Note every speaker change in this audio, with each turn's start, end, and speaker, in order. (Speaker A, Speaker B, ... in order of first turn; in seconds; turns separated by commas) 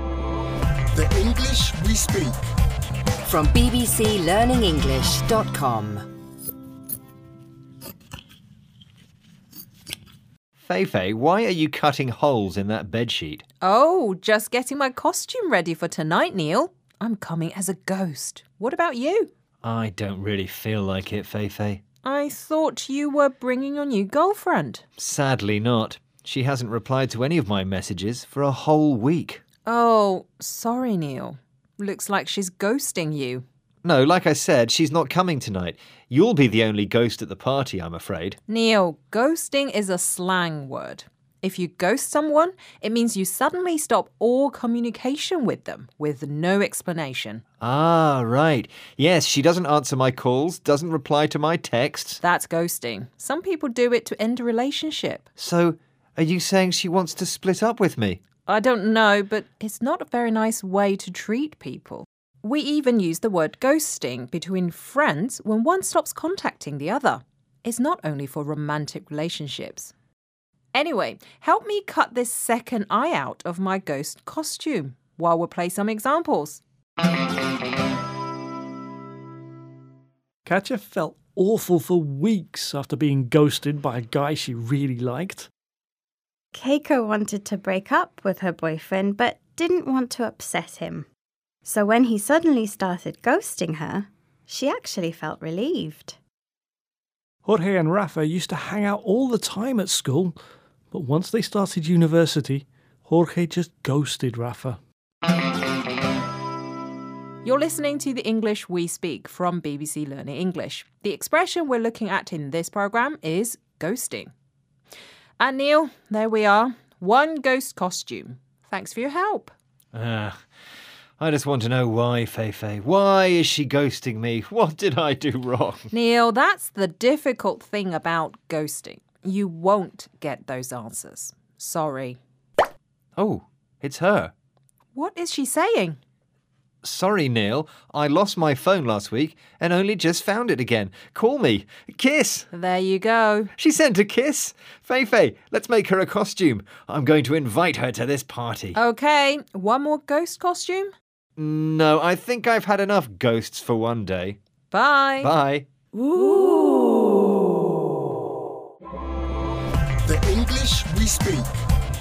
Speaker A: 0.9-2.4, Speaker B: 3.2-6.0, Speaker C: 10.6-13.4, Speaker D: 13.6-19.3, Speaker C: 19.6-21.8, Speaker D: 22.0-24.8, Speaker C: 25.0-29.4, Speaker D: 29.6-33.4, Speaker C: 33.8-38.4, Speaker D: 38.5-47.4, Speaker C: 47.6-52.2, Speaker D: 52.2-55.2, Speaker C: 55.4-58.2, Speaker D: 58.5-69.9, Speaker D: 70.7-76.6, Speaker E: 80.4-85.5, Speaker F: 86.5-91.0, Speaker F: 91.6-96.2, Speaker E: 97.4-100.3, Speaker E: 100.9-104.8, Speaker D: 107.4-114.3, Speaker D: 115.4-119.5, Speaker C: 119.9-120.4, Speaker C: 121.2-125.9, Speaker D: 125.9-132.2, Speaker C: 133.2-134.3, Speaker D: 134.9-136.0, Speaker C: 136.8-142.5, Speaker D: 142.5-143.5, Speaker C: 143.6-148.8, Speaker D: 148.7-150.9, Speaker C: 151.4-154.4, Speaker D: 154.7-155.3, Speaker C: 155.2-155.7, Speaker A: 160.0-161.6